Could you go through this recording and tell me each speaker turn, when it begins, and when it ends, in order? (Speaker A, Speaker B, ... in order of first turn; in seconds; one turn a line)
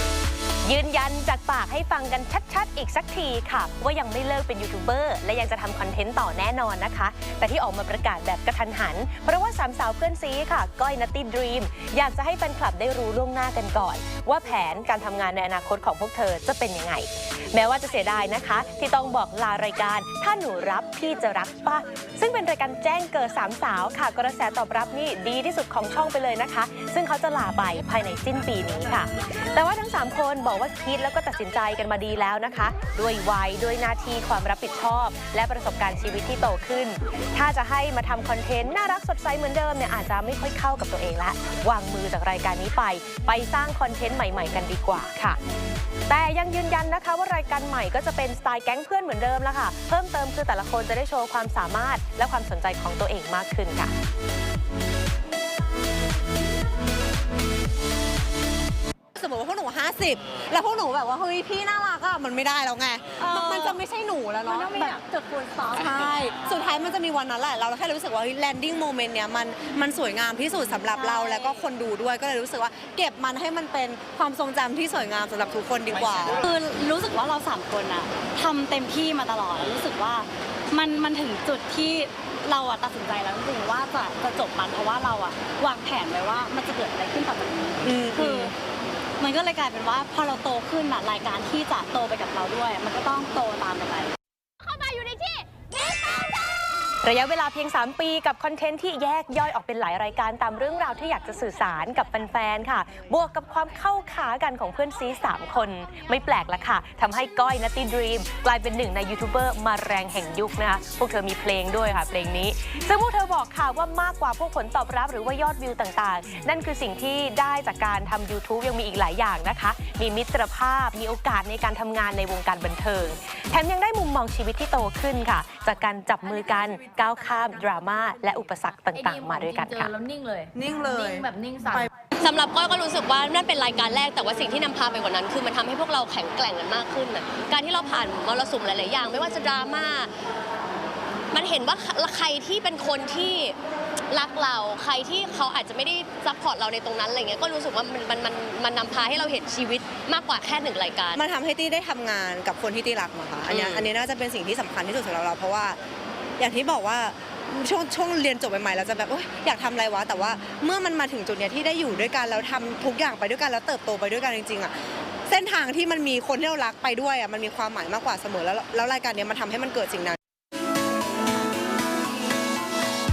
Speaker A: 0.6-45.4
Speaker A: 46.1-53.9
Speaker B: 59.1-65.0
Speaker C: 63.2-63.8
Speaker C: 64.4-66.2
Speaker B: 65.7-76.4
Speaker C: 70.8-71.7
Speaker C: 76.3-88.5
Speaker B: 87.8-88.5
Speaker C: 89.2-94.1
Speaker D: 94.6-96.6
Speaker A: 97.0-129.9
Speaker E: 128.9-131.9
Speaker B: 130.6-131.9
Speaker D: 132.2-140.1
Speaker D: 141.3-143.6
Speaker D: 144.1-151.2
Speaker B: 151.2-155.8
Speaker D: 153.5-153.9
Speaker B: 156.4-164.8
Speaker B: 165.3-170.2